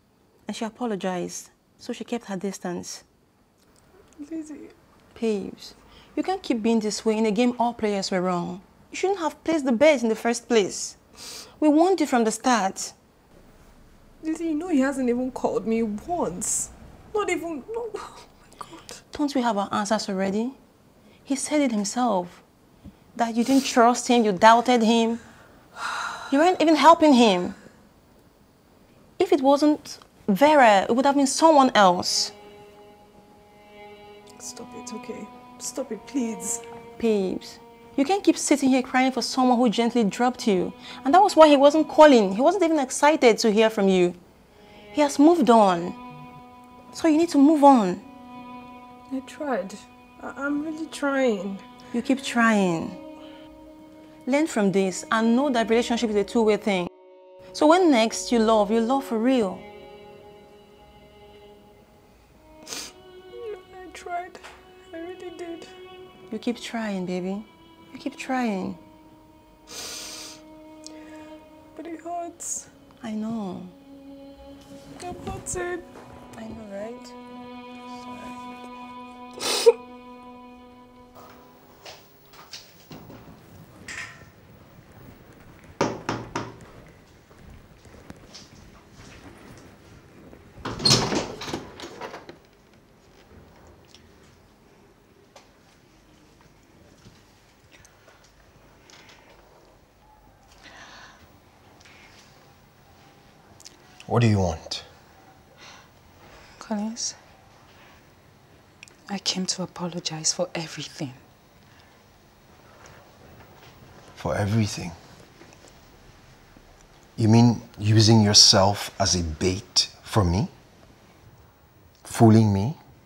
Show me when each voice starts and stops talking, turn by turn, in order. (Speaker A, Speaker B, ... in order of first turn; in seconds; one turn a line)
Speaker A: 0.5-3.0
Speaker B: 4.2-4.7
Speaker A: 5.1-10.9
Speaker A: 11.6-12.9
Speaker B: 14.2-19.0
Speaker A: 19.1-20.6
Speaker A: 21.2-22.4
Speaker A: 23.1-25.2
Speaker A: 26.3-27.6
Speaker A: 29.2-32.3
Speaker B: 34.4-36.6
Speaker A: 37.0-44.2
Speaker A: 44.9-46.0
Speaker A: 46.9-48.0
Speaker B: 49.1-51.6
Speaker A: 51.9-53.0
Speaker A: 54.2-56.9
Speaker A: 57.5-59.7
Speaker B: 63.4-65.7
Speaker A: 66.3-68.8
Speaker B: 71.8-72.7
Speaker A: 73.0-73.7
Speaker B: 75.0-75.8
Speaker A: 76.3-77.1
Speaker B: 78.1-78.3
Speaker C: 104.1-104.8
Speaker D: 106.6-107.2
Speaker D: 109.1-111.2
Speaker C: 114.2-115.0
Speaker C: 117.2-120.5
Speaker C: 122.0-122.8